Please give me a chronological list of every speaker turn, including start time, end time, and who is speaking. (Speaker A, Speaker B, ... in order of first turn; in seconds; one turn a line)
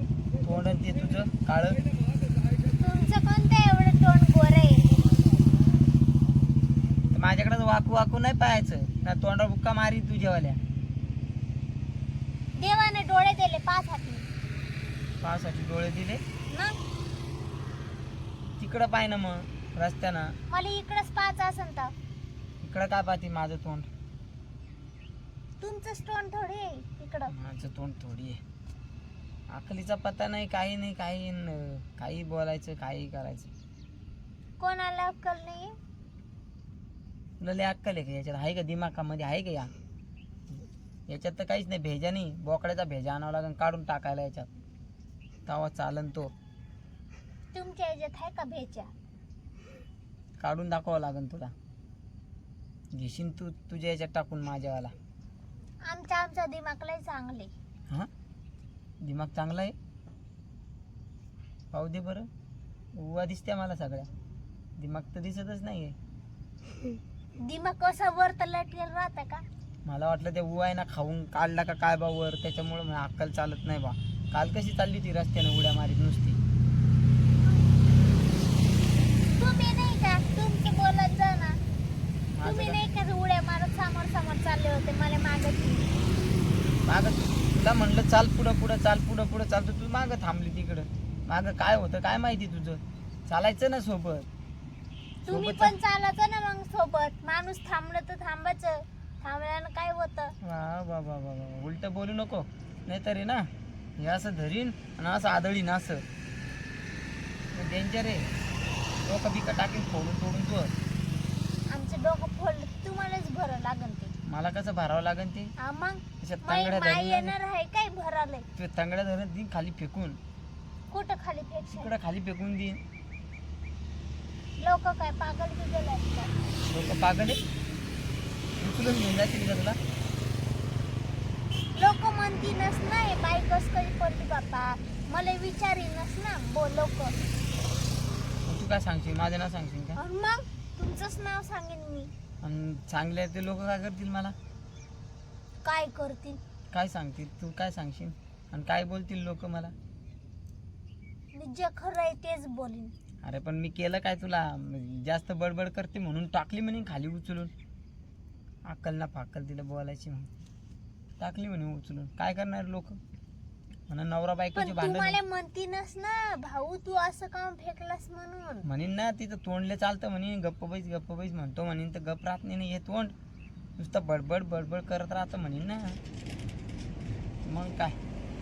Speaker A: 0.4-1.8
Speaker B: 2.8-4.9
Speaker A: 7.1-10.6
Speaker B: 12.6-14.2
Speaker A: 15.2-16.2
Speaker B: 16.5-16.8
Speaker A: 18.6-20.3
Speaker B: 20.5-21.9
Speaker A: 22.6-23.9
Speaker B: 25.6-27.3
Speaker A: 27.3-28.4
Speaker A: 29.5-33.5
Speaker B: 34.6-35.7
Speaker A: 37.4-39.7
Speaker A: 41.1-44.5
Speaker A: 45.5-46.3
Speaker B: 47.5-48.9
Speaker A: 50.4-51.5
Speaker A: 52.9-54.9
Speaker B: 55.9-57.5
Speaker A: 59.0-59.7
Speaker A: 61.7-62.3
Speaker A: 63.0-64.1
Speaker A: 64.8-66.0
Speaker B: 67.4-69.4
Speaker A: 69.9-76.4
Speaker B: 79.4-81.6
Speaker A: 82.3-82.8
Speaker B: 82.4-85.9
Speaker A: 86.9-94.3
Speaker B: 95.2-100.3
Speaker A: 95.3-95.8
Speaker A: 100.4-106.0
Speaker A: 107.5-108.3
Speaker A: 109.1-110.7
Speaker B: 111.7-114.1
Speaker A: 114.3-115.5
Speaker B: 115.6-118.5
Speaker A: 116.2-117.3
Speaker A: 118.6-120.2
Speaker B: 120.9-121.9
Speaker A: 121.7-122.8
Speaker B: 124.6-126.3
Speaker A: 126.7-127.4
Speaker A: 128.6-129.8
Speaker B: 131.8-137.2
Speaker A: 138.5-140.0
Speaker B: 140.0-142.1
Speaker A: 142.4-144.3
Speaker B: 145.6-146.4
Speaker A: 146.7-149.7
Speaker B: 151.3-152.9
Speaker A: 153.2-157.5
Speaker A: 158.7-160.3
Speaker A: 161.2-163.0
Speaker A: 163.9-165.2
Speaker B: 164.6-168.7
Speaker A: 168.7-173.1
Speaker A: 173.8-176.0
Speaker A: 177.5-178.0